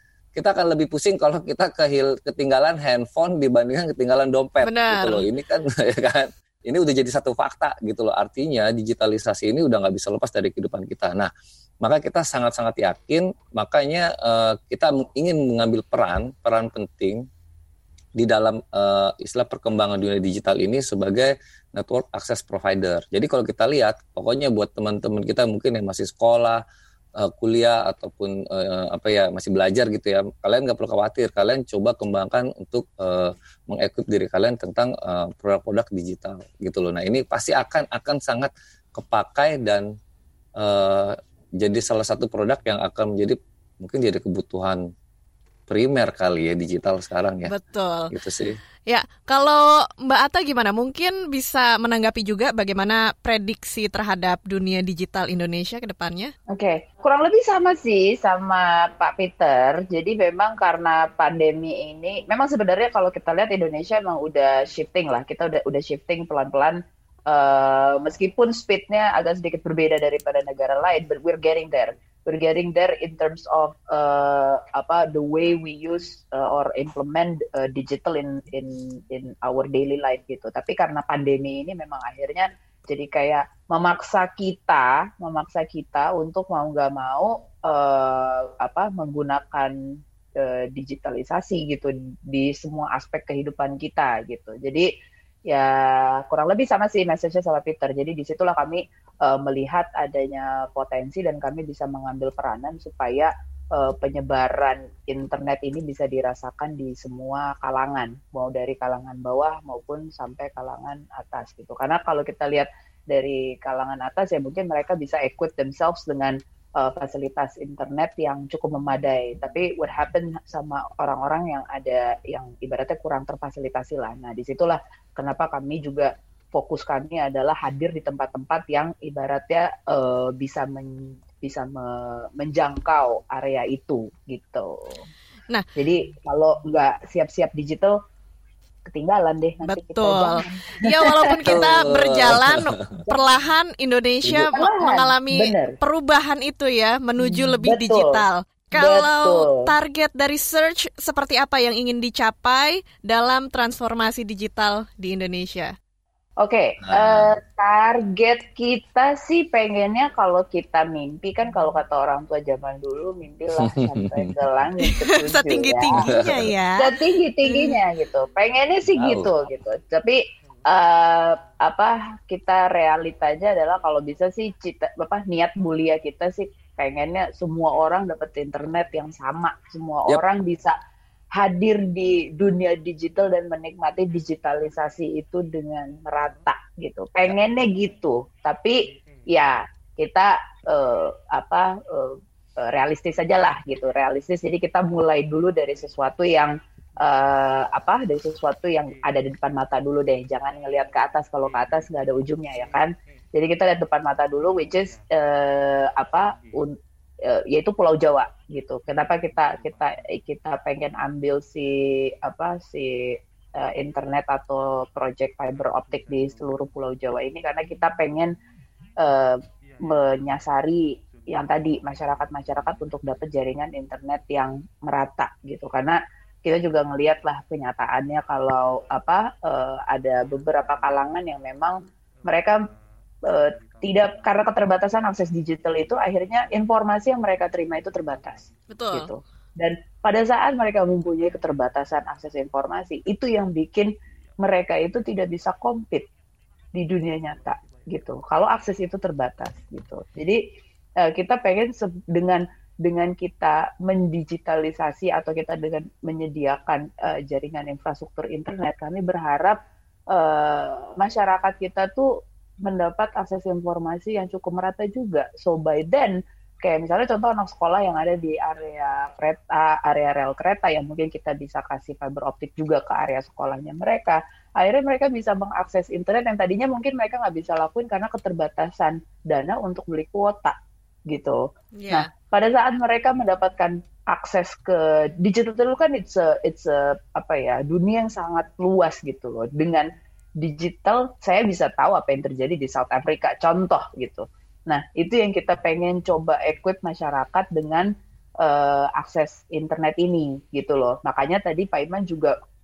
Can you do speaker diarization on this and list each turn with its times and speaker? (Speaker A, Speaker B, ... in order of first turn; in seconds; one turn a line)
Speaker A: 0.3-11.3
Speaker B: 4.6-5.2
Speaker A: 11.8-17.2
Speaker A: 18.1-26.6
Speaker A: 27.2-39.9
Speaker A: 40.6-44.8
Speaker A: 45.7-47.5
Speaker B: 47.5-48.1
Speaker A: 48.1-48.6
Speaker B: 48.9-56.3
Speaker C: 56.5-89.7
Speaker C: 90.4-94.9
Speaker C: 95.5-135.1
Speaker C: 135.8-137.9
Speaker C: 138.9-141.5
Speaker B: 139.6-155.8
Speaker A: 141.4-143.0
Speaker C: 144.3-145.8
Speaker C: 147.2-148.2
Speaker C: 148.7-149.7
Speaker C: 156.4-166.0
Speaker A: 156.8-157.3
Speaker A: 163.7-164.3
Speaker B: 164.8-167.8
Speaker A: 166.0-166.5
Speaker C: 166.8-180.7
Speaker A: 168.9-169.3
Speaker C: 181.3-188.8
Speaker C: 189.3-218.4
Speaker C: 219.0-232.6
Speaker C: 233.2-246.1
Speaker B: 238.7-239.1
Speaker C: 246.7-250.4
Speaker C: 251.0-259.6
Speaker C: 260.1-262.1
Speaker C: 262.6-280.6
Speaker C: 281.1-297.9
Speaker B: 281.8-282.1
Speaker C: 298.4-302.3